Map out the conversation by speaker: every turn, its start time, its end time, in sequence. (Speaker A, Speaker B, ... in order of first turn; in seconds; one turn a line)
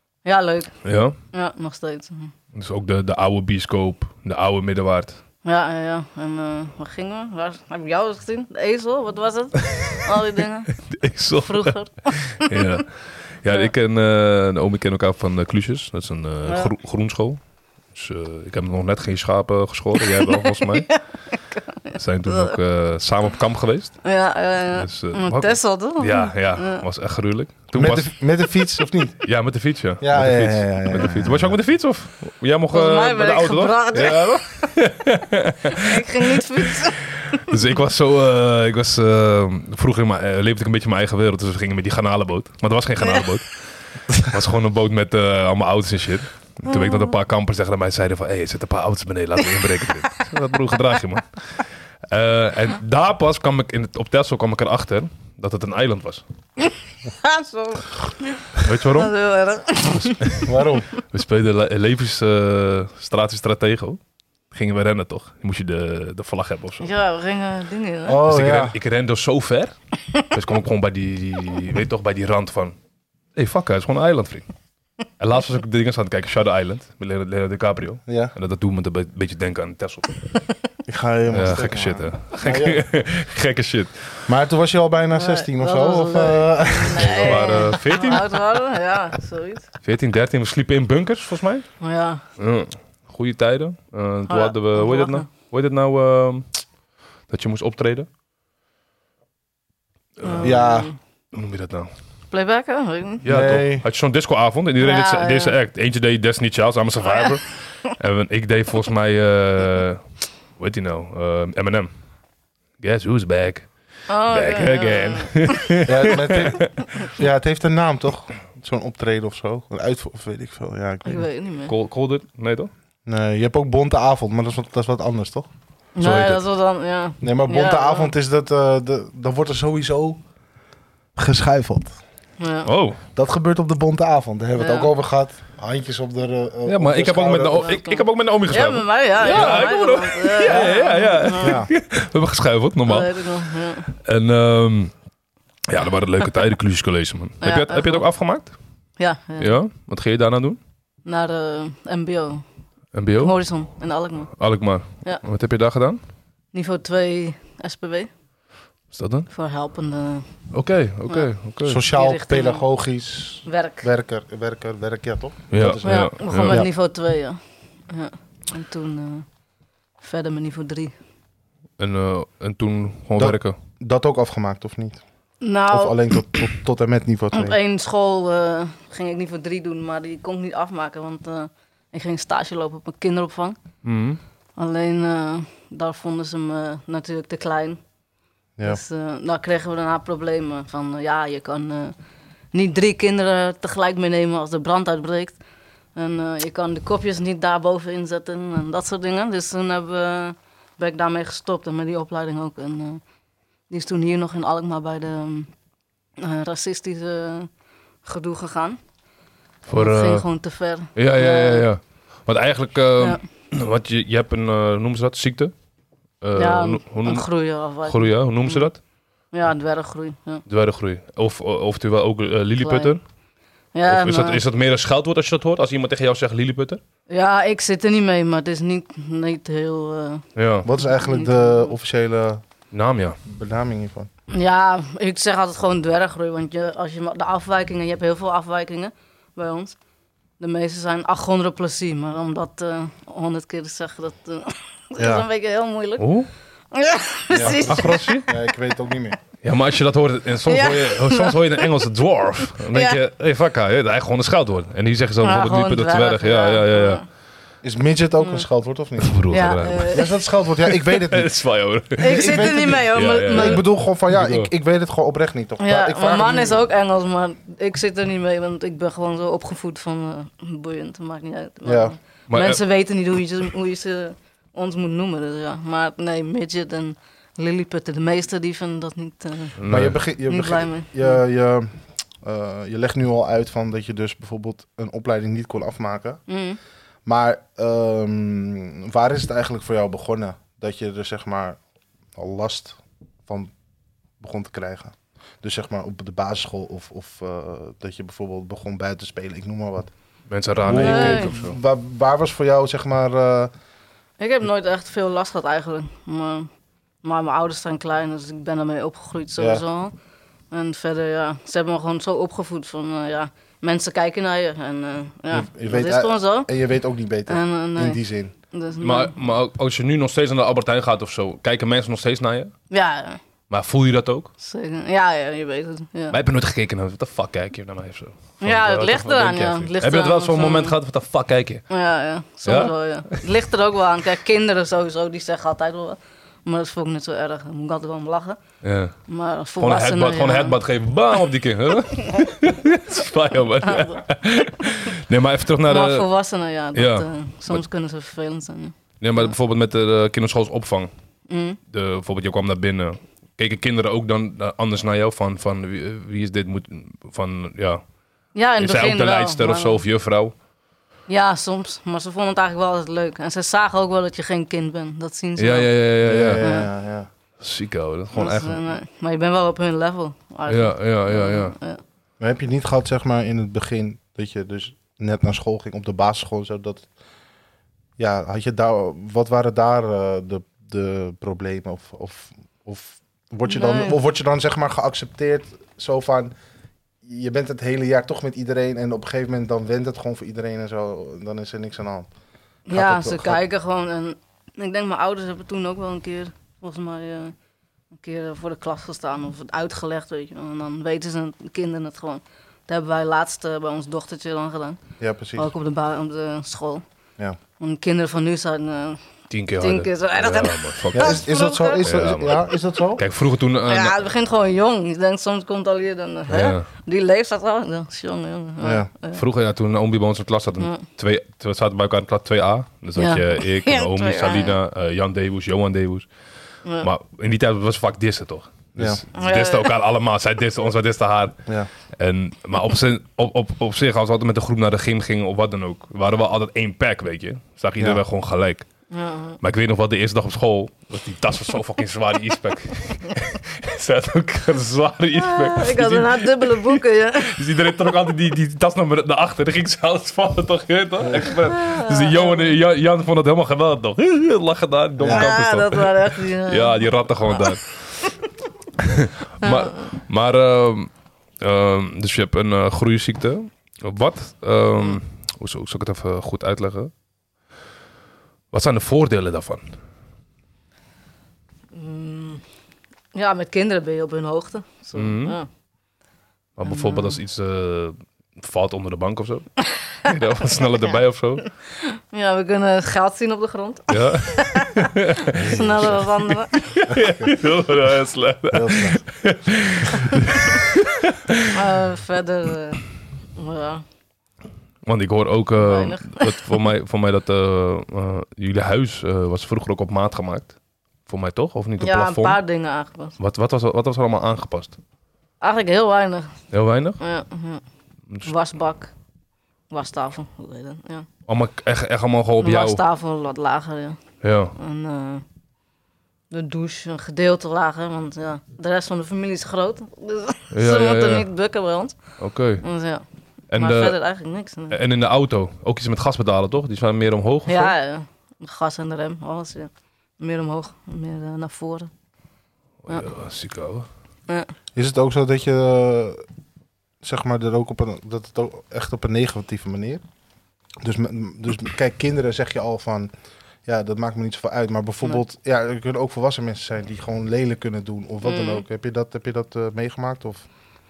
Speaker A: 0.2-0.8
Speaker B: 0.8-1.1
Speaker A: 1.3-2.3
Speaker B: 2.5-5.2
Speaker A: 5.4-10.7
Speaker B: 10.9-21.1
Speaker A: 11.4-12.8
Speaker A: 13.5-13.7
Speaker A: 16.5-16.7
Speaker A: 20.0-22.6
Speaker B: 21.9-24.2
Speaker A: 24.0-26.8
Speaker B: 24.7-28.1
Speaker C: 27.7-29.3
Speaker B: 29.2-36.3
Speaker C: 30.0-31.6
Speaker A: 32.7-34.7
Speaker A: 35.8-37.5
Speaker B: 37.3-56.2
Speaker A: 43.0-43.3
Speaker A: 46.7-47.1
Speaker A: 57.2-60.4
Speaker B: 58.6-59.1
Speaker B: 59.9-64.0
Speaker C: 60.5-60.9
Speaker B: 64.5-66.9
Speaker A: 66.8-68.2
Speaker C: 68.1-68.8
Speaker B: 68.3-72.8
Speaker B: 73.3-74.5
Speaker B: 75.2-80.3
Speaker C: 78.1-78.3
Speaker C: 80.9-82.8
Speaker B: 81.3-84.2
Speaker C: 84.3-87.5
Speaker A: 85.2-89.7
Speaker B: 87.0-88.4
Speaker B: 89.8-91.7
Speaker A: 91.8-92.2
Speaker B: 92.4-96.7
Speaker A: 94.3-95.3
Speaker B: 97.3-98.1
Speaker B: 100.2-100.5
Speaker A: 100.2-101.0
Speaker C: 100.4-100.9
Speaker B: 101.3-101.9
Speaker A: 102.3-103.2
Speaker B: 103.2-110.0
Speaker C: 103.2-103.8
Speaker A: 104.8-105.6
Speaker B: 110.6-111.9
Speaker B: 112.8-113.7
Speaker A: 114.1-115.8
Speaker B: 114.3-116.7
Speaker C: 115.8-121.3
Speaker A: 121.0-121.7
Speaker B: 121.7-122.7
Speaker C: 123.1-125.5
Speaker A: 126.0-128.1
Speaker B: 126.0-126.4
Speaker C: 127.2-130.2
Speaker C: 131.2-132.0
Speaker A: 132.4-132.7
Speaker B: 132.7-133.0
Speaker C: 133.1-137.8
Speaker A: 134.6-134.9
Speaker B: 136.7-143.2
Speaker A: 137.6-141.6
Speaker C: 139.3-139.7
Speaker C: 141.4-141.7
Speaker A: 142.9-143.9
Speaker B: 143.9-144.9
Speaker B: 145.7-148.6
Speaker A: 147.4-148.1
Speaker A: 149.0-149.5
Speaker B: 149.4-150.6
Speaker A: 151.1-152.4
Speaker B: 152.9-153.4
Speaker A: 153.2-154.3
Speaker B: 154.4-156.0
Speaker A: 156.5-158.1
Speaker B: 158.9-159.3
Speaker A: 159.3-160.3
Speaker B: 160.5-161.8
Speaker C: 161.6-166.7
Speaker A: 161.9-162.6
Speaker A: 163.5-163.9
Speaker B: 165.5-166.6
Speaker A: 165.8-169.3
Speaker A: 170.0-170.9
Speaker B: 171.8-173.6
Speaker C: 173.2-175.0
Speaker A: 175.4-176.4
Speaker C: 175.7-177.6
Speaker A: 177.3-183.6
Speaker B: 183.8-184.2
Speaker A: 184.6-187.8
Speaker A: 188.7-191.9
Speaker A: 192.5-195.4
Speaker A: 195.9-203.0
Speaker A: 203.7-205.5
Speaker A: 206.2-207.5
Speaker A: 208.0-208.8
Speaker B: 209.7-210.3
Speaker A: 209.7-211.7
Speaker B: 210.9-215.5
Speaker B: 216.2-218.8
Speaker A: 216.3-218.7
Speaker A: 219.3-220.4
Speaker B: 220.5-223.0
Speaker A: 222.6-222.9
Speaker A: 223.8-224.4
Speaker B: 223.9-226.8
Speaker A: 227.1-231.8
Speaker B: 230.4-230.7
Speaker C: 230.6-232.4
Speaker B: 232.7-233.2
Speaker C: 233.3-234.1
Speaker A: 234.3-239.8
Speaker A: 240.4-246.1
Speaker C: 245.0-245.2
Speaker B: 246.0-246.3
Speaker A: 246.7-248.2
Speaker C: 247.3-249.2
Speaker B: 247.4-248.3
Speaker B: 249.4-257.0
Speaker A: 250.5-251.7
Speaker A: 252.7-253.0
Speaker A: 255.2-257.0
Speaker C: 257.6-259.2
Speaker B: 259.0-260.0
Speaker A: 259.3-260.2
Speaker C: 259.9-261.3
Speaker B: 260.7-264.5
Speaker A: 262.0-263.6
Speaker C: 262.0-266.6
Speaker A: 265.6-281.2
Speaker C: 271.6-272.0
Speaker B: 272.3-272.6
Speaker B: 279.6-280.0
Speaker C: 279.7-286.2
Speaker A: 286.3-286.6
Speaker C: 287.1-291.6
Speaker C: 292.1-293.5
Speaker C: 294.2-299.9
Speaker B: 300.3-301.6
Speaker C: 300.6-303.5
Speaker A: 300.7-301.4
Speaker A: 304.2-306.5
Speaker A: 307.0-309.9
Speaker C: 309.4-309.6
Speaker A: 310.5-316.5
Speaker C: 315.3-318.3
Speaker A: 317.3-319.2
Speaker B: 318.8-322.5
Speaker A: 322.7-323.2
Speaker B: 323.5-324.3
Speaker A: 324.4-326.2
Speaker B: 326.1-331.7
Speaker A: 328.4-330.8
Speaker A: 331.7-338.4
Speaker B: 332.4-333.2
Speaker B: 338.6-338.9
Speaker A: 339.1-340.6
Speaker B: 339.6-346.1
Speaker A: 343.6-344.0
Speaker A: 345.7-349.3
Speaker B: 346.7-347.6
Speaker B: 349.0-350.9
Speaker A: 351.3-351.6
Speaker B: 351.7-357.8
Speaker A: 358.4-359.8
Speaker B: 358.6-360.3
Speaker A: 361.1-365.8
Speaker B: 365.4-366.4
Speaker C: 366.1-367.1
Speaker A: 366.4-366.7
Speaker B: 367.4-368.6
Speaker A: 368.1-371.8
Speaker B: 370.5-371.5
Speaker C: 372.2-376.9
Speaker C: 378.0-386.3
Speaker A: 383.4-384.0
Speaker C: 387.0-392.1
Speaker A: 392.7-397.3
Speaker C: 392.7-393.4
Speaker A: 397.9-404.8
Speaker C: 405.0-405.5
Speaker A: 405.4-406.8
Speaker A: 407.6-409.0
Speaker B: 409.3-411.2
Speaker A: 409.6-412.4
Speaker C: 410.9-413.0
Speaker B: 411.8-412.4
Speaker B: 413.0-414.0
Speaker A: 413.7-419.2
Speaker B: 416.3-416.6
Speaker C: 418.6-418.9
Speaker B: 419.1-426.1
Speaker A: 423.0-424.6
Speaker B: 426.8-431.4
Speaker A: 429.1-429.7
Speaker B: 432.0-438.7
Speaker A: 438.9-439.4
Speaker B: 439.4-458.1
Speaker A: 445.2-447.4
Speaker C: 451.0-451.4
Speaker A: 451.5-452.5
Speaker C: 455.0-455.3
Speaker A: 455.1-456.9
Speaker B: 458.8-466.9
Speaker A: 459.4-459.7
Speaker B: 468.5-469.7
Speaker A: 471.7-472.4
Speaker A: 473.1-475.5
Speaker B: 474.9-475.4
Speaker B: 476.6-481.5
Speaker A: 476.7-477.2
Speaker A: 481.4-486.6
Speaker B: 483.9-491.0
Speaker C: 486.9-487.3
Speaker C: 488.5-489.0
Speaker A: 491.5-492.8
Speaker A: 493.4-493.8
Speaker B: 494.9-500.6
Speaker A: 495.6-496.4
Speaker B: 501.1-502.4
Speaker A: 501.8-503.2
Speaker B: 503.2-504.8
Speaker A: 505.4-506.4
Speaker B: 506.5-507.0
Speaker A: 507.0-507.6
Speaker A: 508.2-508.9
Speaker A: 509.7-511.1
Speaker B: 511.3-512.8
Speaker A: 512.4-514.0
Speaker B: 514.2-514.5
Speaker A: 514.6-515.2
Speaker A: 516.3-522.0
Speaker B: 520.5-521.3
Speaker B: 522.2-522.6
Speaker A: 522.6-524.8
Speaker B: 523.5-524.0
Speaker B: 524.7-527.7
Speaker A: 527.5-531.9
Speaker B: 532.9-533.9
Speaker C: 534.8-536.2
Speaker C: 537.0-540.0
Speaker C: 540.8-543.1
Speaker C: 543.6-550.5
Speaker A: 548.2-548.6